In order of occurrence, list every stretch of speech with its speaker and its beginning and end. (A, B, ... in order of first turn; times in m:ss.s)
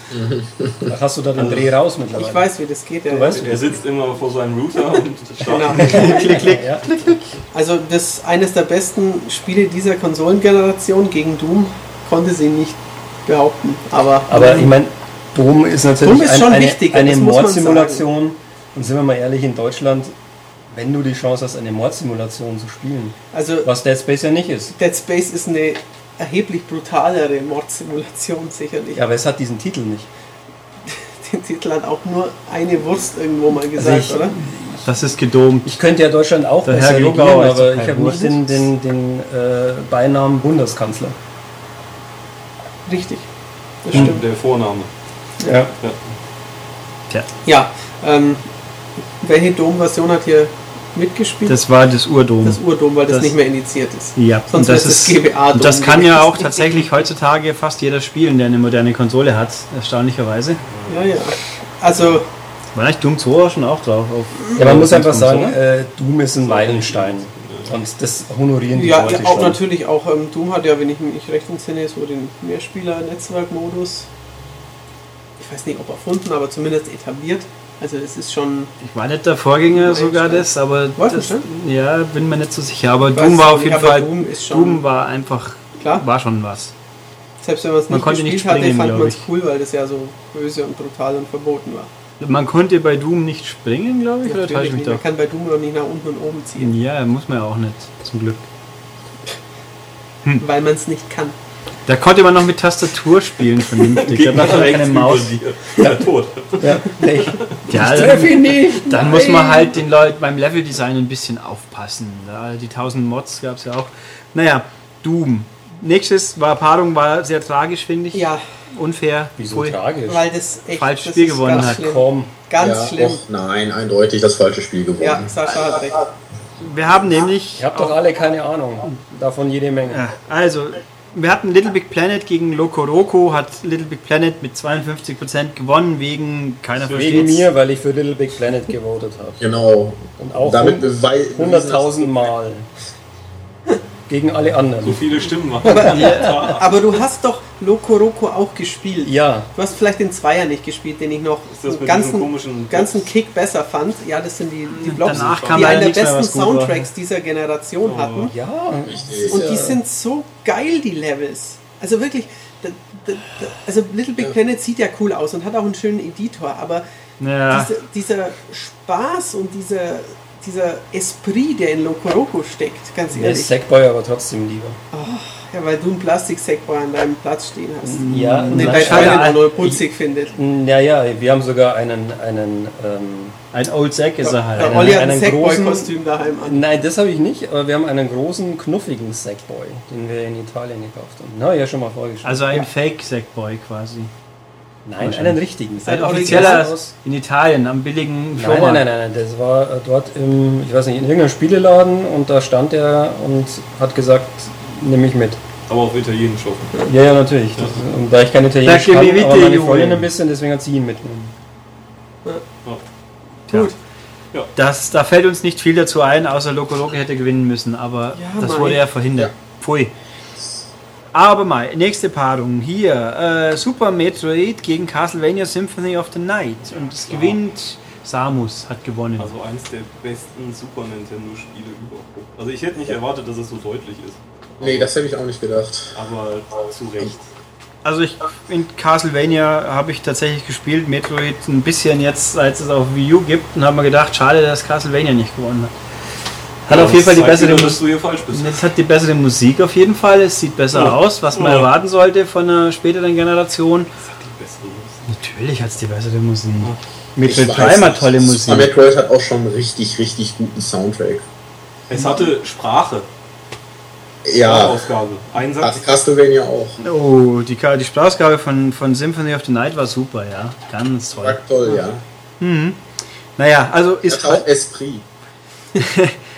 0:00.1-0:00.9 A
0:00.9-0:02.5 B
0:02.1-0:03.6 C
0:03.0-0:03.8 B
0:03.3-0:06.3 D
0:05.5-0:06.5 C
0:05.6-0:06.8 B
0:05.8-0:07.4 E
0:07.5-0:14.7 C
0:14.3-0:20.1 B
0:16.0-0:18.0 C
0:20.7-0:24.7 B
0:23.3-0:23.7 C
0:24.7-0:29.0 C
0:28.9-0:30.1 B
0:30.8-0:34.3 C
0:33.7-0:34.9 B
0:34.8-0:35.7 E
0:35.6-0:41.2 B
0:36.6-0:38.6 E
0:42.8-0:43.3 C
0:43.8-0:44.2 C
0:43.9-0:44.9 D
0:45.4-0:45.7 B
0:45.8-0:46.1 D
0:47.4-0:48.4 C
0:49.2-0:51.6 C
0:51.5-0:53.3 E
0:52.4-0:56.9 C
0:54.1-1:00.6 E
1:00.7-1:01.4 D
1:00.9-1:02.2 C
1:02.7-1:05.6 E
1:04.5-1:09.6 B
1:06.4-1:07.8 D
1:08.7-1:14.1 C
1:08.9-1:09.6 D
1:15.4-1:18.7 C
1:18.8-1:26.7 E
1:19.7-1:21.4 C
1:23.1-1:24.8 C
1:25.8-1:26.0 C
1:27.4-1:31.9 C
1:27.9-1:29.3 E
1:32.2-1:35.0 E
1:34.2-1:36.7 C
1:36.6-1:38.4 E
1:40.4-1:41.3 C
1:41.9-1:45.3 E
1:43.7-1:47.6 D
1:46.6-1:49.7 B
1:47.7-1:59.8 E
1:58.1-1:58.4 C
1:59.4-2:00.2 B
2:00.1-2:03.2 C
2:00.7-2:01.8 E
2:01.5-2:02.3 B
2:02.6-2:05.6 A
2:05.0-2:06.1 C
2:06.6-2:08.0 E
2:07.5-2:10.0 B
2:09.9-2:17.5 E
2:16.8-2:17.4 D
2:16.9-2:19.4 B
2:19.4-2:22.3 A
2:20.2-2:22.6 B
2:24.1-2:25.0 B
2:24.8-2:26.8 D
2:25.6-2:26.5 B
2:25.6-2:38.3 C
2:29.0-2:29.5 B
2:31.5-2:33.1 D
2:34.7-2:36.9 E
2:35.0-2:35.9 D
2:37.8-2:38.3 D
2:38.3-2:39.8 B
2:38.9-2:39.6 A
2:39.3-2:46.8 C
2:47.2-2:47.7 E
2:47.5-2:53.5 C
2:53.1-2:54.8 B
2:54.9-3:00.3 C
2:57.8-2:59.8 B
2:57.9-2:59.8 E
3:00.3-3:03.4 B
3:03.5-3:05.8 E
3:04.2-3:06.6 C
3:04.6-3:05.9 B
3:06.4-3:12.7 B
3:12.2-3:14.1 E
3:14.8-3:16.9 B
3:15.0-3:18.8 E
3:15.8-3:16.7 C
3:18.3-3:25.4 B
3:25.7-3:26.7 D
3:26.9-3:31.3 B
3:28.6-3:30.1 E
3:33.5-3:33.7 E
3:33.5-3:33.7 C
3:34.5-3:39.9 E
3:38.2-3:38.8 C
3:40.4-3:40.7 A
3:41.1-3:49.3 E
3:47.1-3:47.4 D
3:49.2-3:54.9 D
3:54.6-3:56.0 A
3:55.9-3:57.3 D
3:57.8-4:05.7 E
4:06.7-4:07.8 E
4:06.7-4:08.6 D
4:08.3-4:13.9 E
4:10.7-4:11.7 D
4:14.0-4:15.0 D
4:15.1-4:18.7 E
4:17.2-4:21.2 A
4:21.9-4:23.0 D
4:22.0-4:22.3 C
4:24.2-4:24.9 A
4:24.4-4:25.9 D
4:25.6-4:26.8 A
4:26.8-4:31.4 E
4:31.1-4:32.0 A
4:32.4-4:32.8 E
4:33.4-4:34.4 E
4:34.0-4:35.0 A
4:35.8-4:36.2 E